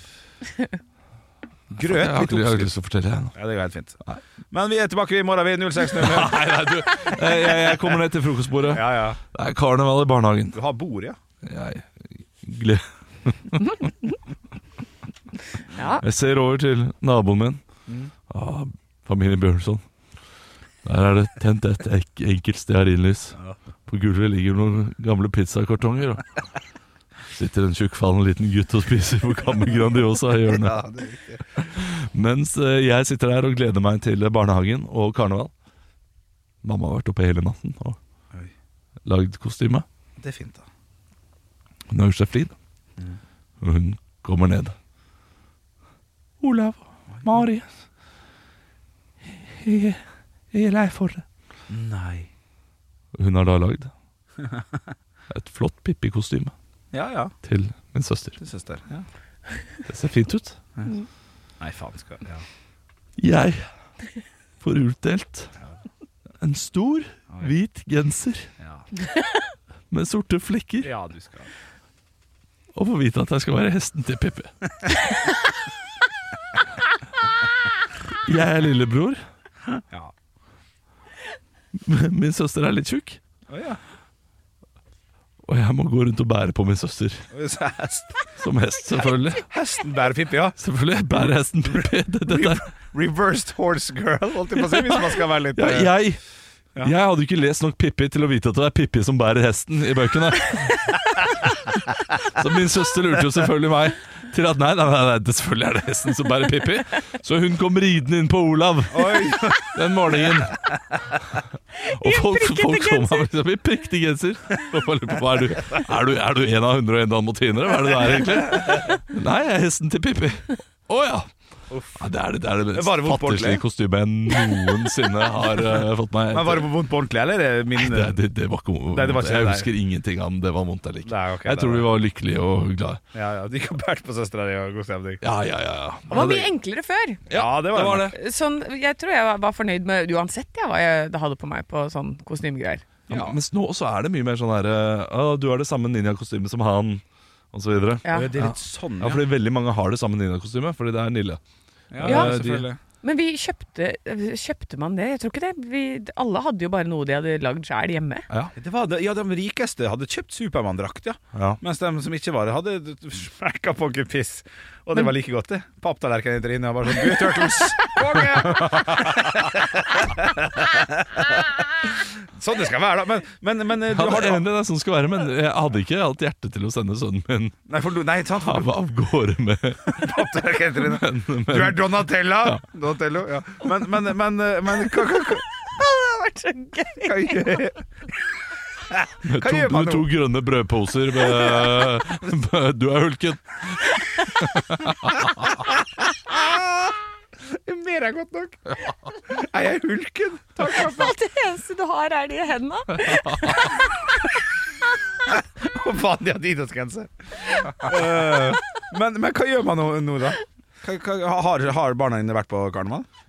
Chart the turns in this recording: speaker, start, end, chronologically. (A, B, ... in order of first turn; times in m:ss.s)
0:00.4-0:00.8 A
0:01.7-0:02.7 B
0:01.7-0:03.4 C
0:03.3-0:04.0 B
0:04.5-0:07.1 B
0:05.9-0:10.6 C
0:08.7-0:09.2 B
0:10.5-0:11.2 B
0:11.4-0:13.9 C
0:15.7-0:16.0 A
0:16.0-0:17.6 C
0:17.9-0:18.1 B
0:18.3-0:19.8 C
0:20.8-0:26.4 C
0:27.3-0:30.8 C
0:30.5-0:31.6 B
0:31.6-0:35.5 C
0:36.6-0:38.0 C
0:39.0-0:39.8 C
0:40.2-0:40.6 B
0:41.9-0:42.6 C
0:43.6-0:44.7 C
0:46.4-0:47.7 C
0:47.2-0:47.5 B
0:49.3-0:51.2 C
0:51.7-0:52.3 B
0:53.1-0:53.9 C
0:54.4-0:54.8 B
0:55.3-0:56.5 C
0:56.9-0:57.3 B
0:57.4-0:58.4 C
0:58.4-0:59.1 B
0:59.8-1:00.6 C
1:01.6-1:02.4 B
1:03.2-1:03.7 C
1:04.6-1:05.5 C
1:06.4-1:08.5 C
1:08.6-1:08.9 B
1:09.9-1:10.9 C
1:10.8-1:11.5 B
1:12.8-1:14.5 C
1:18.2-1:19.2 C
1:19.8-1:20.1 B
1:21.8-1:23.2 C
1:23.5-1:23.8 B
1:25.4-1:27.2 C
1:27.3-1:28.3 B
1:28.4-1:29.5 C
1:29.5-1:30.6 B
1:30.6-1:32.7 C
1:31.2-1:35.9 B
1:34.6-1:36.2 C
1:36.8-1:50.6 C
1:48.9-1:49.7 B
1:51.8-1:53.3 A
1:51.9-2:01.3 C
1:58.5-1:58.9 B
2:01.7-2:02.0 B
2:02.0-2:06.7 C
2:02.7-2:03.6 B
2:05.4-2:05.8 B
2:06.3-2:08.2 B
2:07.8-2:13.0 C
2:08.9-2:09.7 B
2:11.0-2:11.9 B
2:13.1-2:15.2 B
2:15.2-2:16.5 C
2:16.1-2:17.2 A
2:17.3-2:18.2 C
2:17.3-2:18.1 B
2:18.1-2:22.9 A
2:23.1-2:23.4 B
2:23.1-2:31.4 C
2:28.0-2:28.3 A
2:28.1-2:29.2 B
2:31.9-2:32.8 B
2:31.9-2:32.7 C
2:32.0-2:32.3 A
2:33.0-2:38.2 A
2:38.3-2:38.6 C
2:38.6-2:54.4 B
2:41.3-2:41.6 C
2:53.9-2:57.6 C
2:57.7-2:58.7 B
2:58.4-3:02.6 C
2:59.9-3:05.4 B
3:05.6-3:07.7 A
3:07.0-3:07.8 B
3:08.9-3:10.1 B
3:09.2-3:15.5 C
3:16.2-3:21.1 B
3:20.7-3:24.0 A
3:25.3-3:33.1 B